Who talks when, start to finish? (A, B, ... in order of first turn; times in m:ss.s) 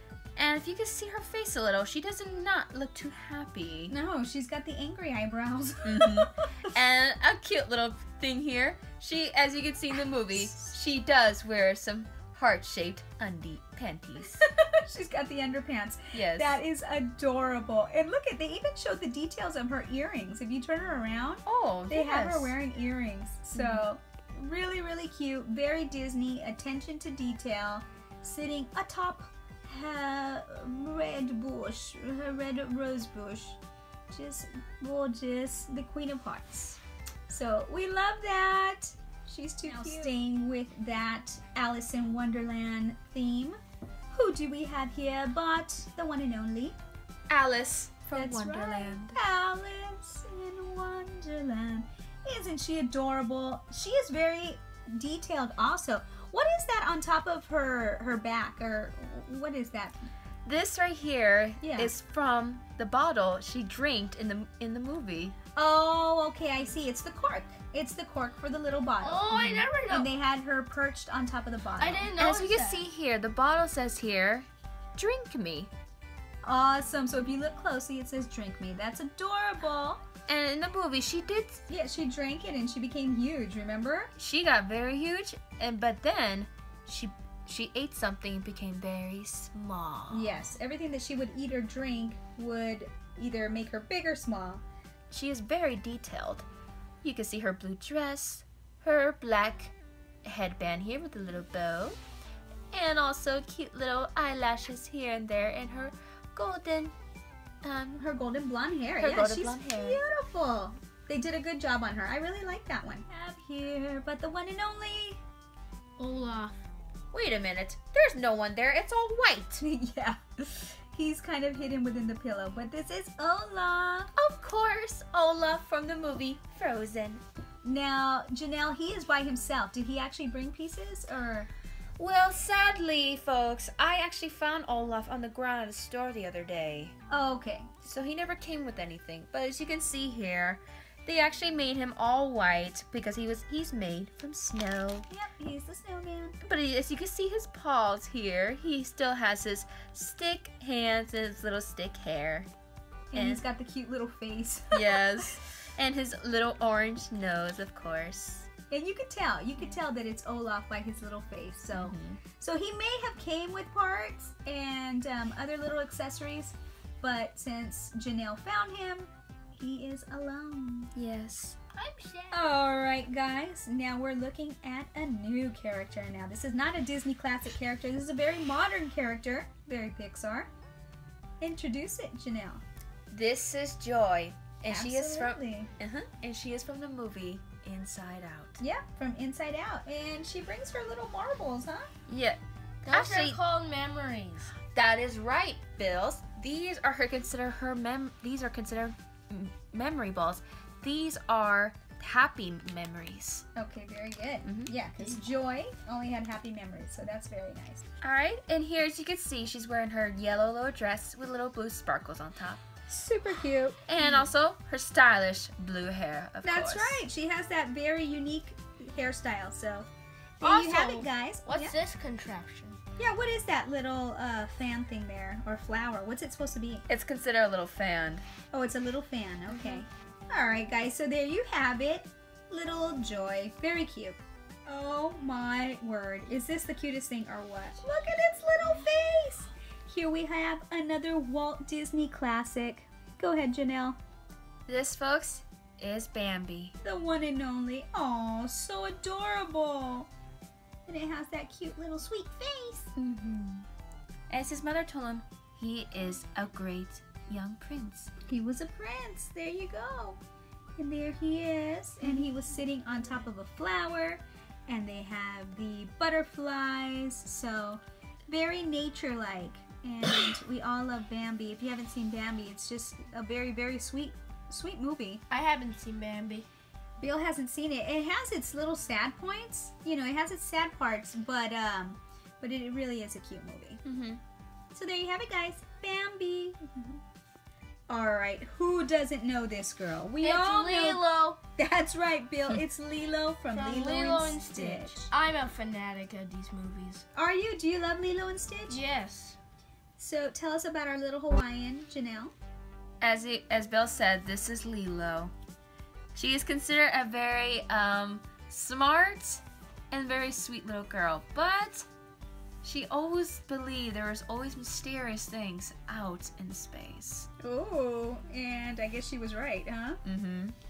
0:00.4-0:03.9 A
0:03.9-0:06.3 B
0:05.8-0:14.5 A
0:10.3-0:10.7 B
0:14.4-0:33.6 B
0:16.1-0:16.6 A
0:21.5-0:22.6 A
0:23.6-0:23.9 A
0:34.1-0:43.6 B
0:39.6-0:40.2 A
0:44.1-0:46.8 B
0:47.3-0:49.2 A
0:48.2-1:00.0 B
1:00.4-1:05.4 A
1:01.6-1:01.9 B
1:05.6-1:09.3 B
1:09.0-1:10.1 C
1:09.3-1:09.7 A
1:09.9-1:12.2 B
1:11.8-1:12.9 C
1:12.2-1:15.7 A
1:16.4-1:20.0 B
1:20.3-1:21.6 A
1:21.7-1:24.1 B
1:24.2-1:30.4 A
1:30.1-1:34.6 B
1:35.1-1:36.5 A
1:37.0-1:42.0 A
1:42.7-1:46.9 A
1:47.6-1:48.0 A
1:48.0-1:55.2 B
1:49.0-1:50.0 A
1:56.0-1:56.5 C
1:57.1-1:59.6 A
1:59.6-2:04.1 B
2:04.2-2:07.2 A
2:07.6-2:11.5 B
2:12.0-2:16.9 A
2:17.1-2:17.7 B
2:17.8-2:25.1 A
2:25.1-2:26.4 B
2:26.4-2:32.5 A
2:33.1-2:35.3 B
2:33.1-2:33.4 A
2:34.7-2:38.5 A
2:38.7-2:50.9 B
2:41.7-2:42.2 A
2:51.0-2:51.6 A
2:51.7-2:52.5 C
2:52.3-3:00.5 B
3:01.4-3:02.6 B
3:03.1-3:08.6 A
3:04.7-3:05.7 B
3:08.6-3:11.9 B
3:12.1-3:12.4 A
3:12.8-3:14.6 C
3:12.9-3:13.4 A
3:14.7-3:23.5 A
3:23.6-3:27.8 B
3:24.4-3:24.7 A
3:28.0-3:32.6 A
3:32.9-3:34.3 B
3:33.9-3:37.0 A
3:36.4-3:41.8 B
3:40.4-3:42.8 C
3:43.0-3:46.8 B
3:46.9-3:48.2 A
3:48.5-4:04.0 B
3:49.5-3:49.8 A
4:04.7-4:06.8 A
4:06.8-4:10.1 B
4:10.9-4:13.0 B
4:13.0-4:13.6 A
4:14.3-4:18.1 A
4:18.3-4:20.2 B
4:20.8-4:35.2 B
4:35.3-4:36.5 C
4:37.0-4:43.8 B
4:43.8-4:44.2 A
4:44.7-4:47.0 B
4:47.9-4:51.0 B
4:50.2-4:51.4 C
4:51.6-4:55.1 B
4:53.5-4:57.0 C
4:57.2-4:58.8 B
4:58.7-4:59.4 C
5:00.0-5:02.3 B
5:03.0-5:05.3 A
5:06.2-5:11.9 A
5:12.6-5:17.3 A
5:17.4-5:20.0 B
5:20.0-5:20.6 A